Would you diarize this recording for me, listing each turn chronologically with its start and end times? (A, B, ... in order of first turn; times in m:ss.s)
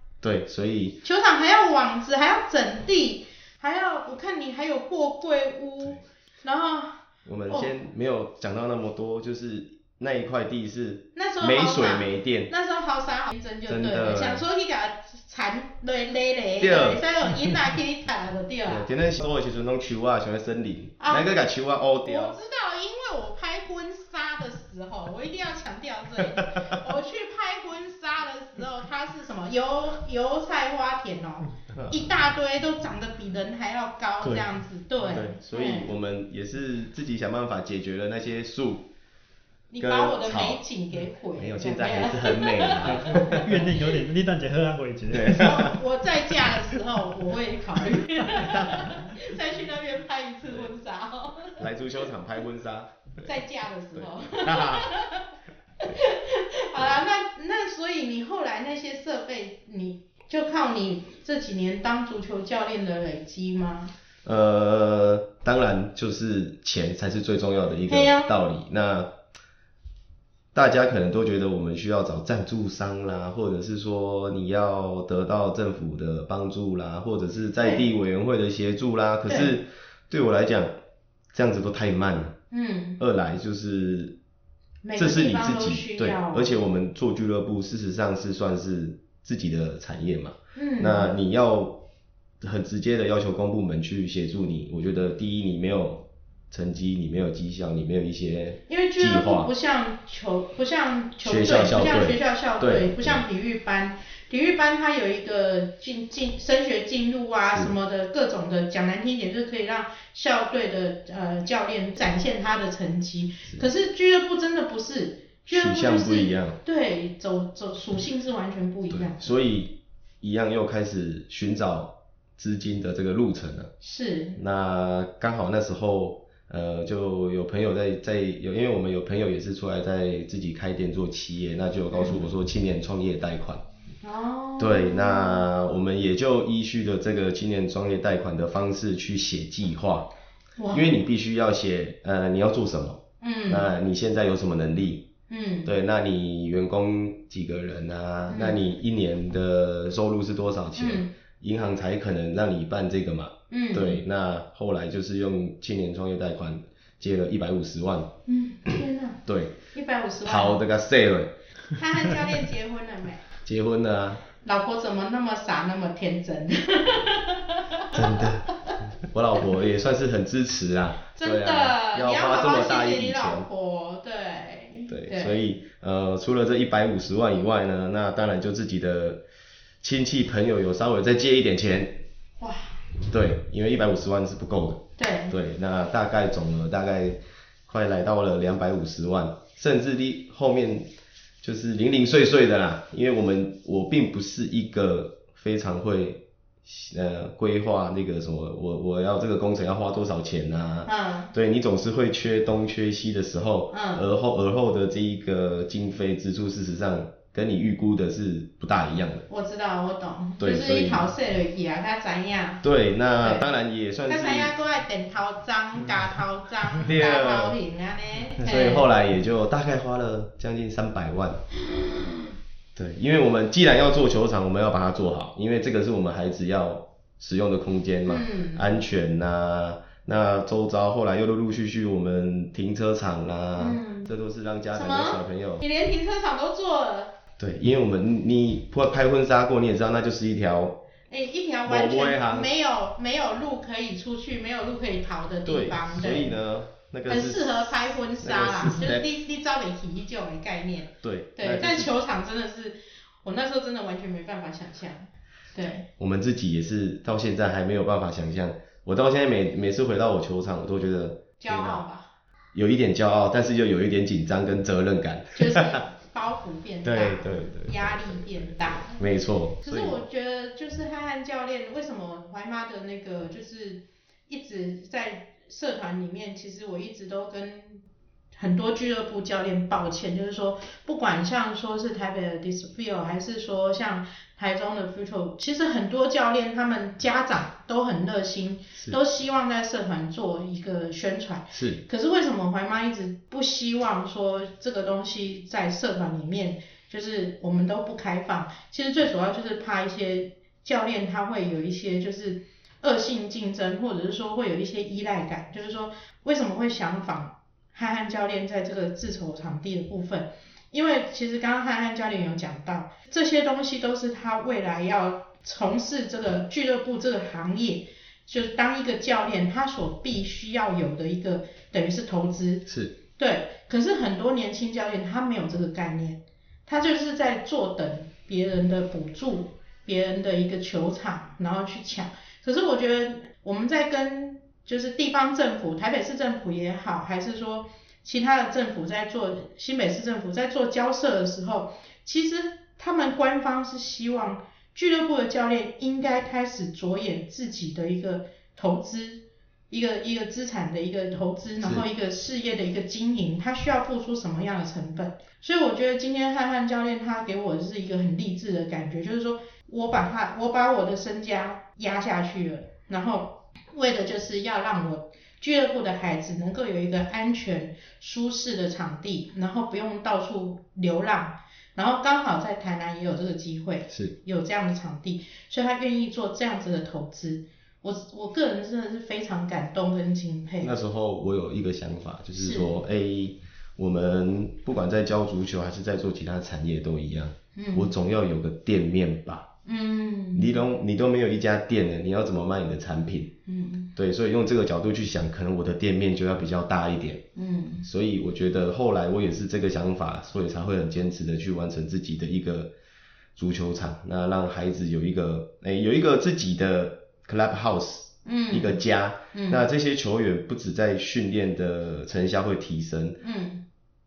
0:00.2-0:01.0 A
0:01.0-0:07.7 B
0:07.2-0:12.5 A
0:11.2-0:18.9 B
0:13.7-0:14.4 A
0:16.6-0:17.0 A
0:18.7-0:22.4 A
0:21.0-0:21.4 B
0:22.0-0:35.9 B
0:26.2-0:26.8 A
0:31.8-0:32.1 A
0:35.0-0:38.9 A
0:39.7-0:43.7 B
0:39.8-0:40.6 A
0:41.4-0:43.5 A
0:43.0-0:45.7 C
0:45.1-0:45.8 A
0:45.3-0:51.6 B
0:48.4-0:48.9 A
0:51.6-0:52.9 A
0:53.2-0:55.3 B
0:54.0-0:54.9 A
0:55.8-1:03.9 B
1:04.2-1:09.1 A
1:07.9-1:08.3 B
1:10.5-1:20.7 A
1:17.6-1:17.9 B
1:19.3-1:19.6 B
1:21.3-1:22.4 A
1:22.5-1:23.0 B
1:23.0-1:24.2 A
1:24.8-1:26.6 B
1:25.0-1:31.8 A
1:30.6-1:31.1 B
1:32.4-1:39.5 A
1:38.7-1:59.4 B
1:41.2-1:43.2 A
1:55.5-1:56.6 A
1:58.9-2:03.7 A
2:03.8-2:04.4 B
2:04.4-2:13.6 A
2:11.9-2:12.2 B
2:14.0-2:15.5 B
2:14.6-2:20.1 A
2:20.6-2:20.9 B
2:20.7-2:25.1 A
2:23.2-2:23.7 B
2:25.3-2:25.7 B
2:25.6-2:38.1 A
2:28.3-2:28.6 B
2:30.8-2:31.1 B
2:33.5-2:34.0 B
2:38.3-2:39.2 B
2:38.7-2:39.6 A
2:39.7-2:40.6 B
2:40.2-2:41.3 A
2:41.7-2:43.3 B
2:43.4-2:44.2 A
2:44.4-2:48.8 B
2:47.9-2:48.5 A
2:49.0-2:53.5 A
2:51.2-2:55.4 B
2:54.9-2:59.2 A
2:59.8-3:02.0 A
3:02.4-3:02.8 B
3:03.1-3:10.9 A
3:05.0-3:05.4 B
3:11.4-3:29.2 A
3:20.8-3:21.3 B
3:23.7-3:24.1 B
3:29.3-3:32.6 B
3:30.4-3:31.1 A
3:32.6-3:34.5 A
3:33.2-3:33.5 B
3:34.1-3:38.9 B
3:36.8-3:37.6 A
3:38.4-3:41.4 A
3:42.8-3:55.6 A
3:48.1-3:48.8 B
3:53.6-3:54.1 B
3:54.7-3:57.1 B
3:57.4-4:00.8 A
4:01.1-4:06.4 B
4:01.6-4:02.5 A
4:05.5-4:09.0 A
4:07.1-4:15.9 B
4:11.0-4:11.9 A
4:16.0-4:21.8 A
4:21.4-4:22.1 B
4:22.5-4:25.8 A
4:25.4-4:29.0 B
4:26.8-4:30.0 A
4:29.6-4:37.8 B
4:38.4-6:20.8 B
4:51.5-4:51.8 A
5:22.7-5:22.9 A
6:20.6-6:29.5 A
6:22.4-6:22.8 B
6:27.6-6:27.9 B
6:29.6-6:30.6 B
6:30.3-6:33.3 A
6:33.5-6:33.9 B
6:34.0-6:37.2 A
6:37.4-6:37.9 B
6:37.8-6:42.7 A
6:43.4-6:53.2 A
6:48.2-6:48.8 B
6:49.3-6:49.6 B
6:53.2-6:53.6 B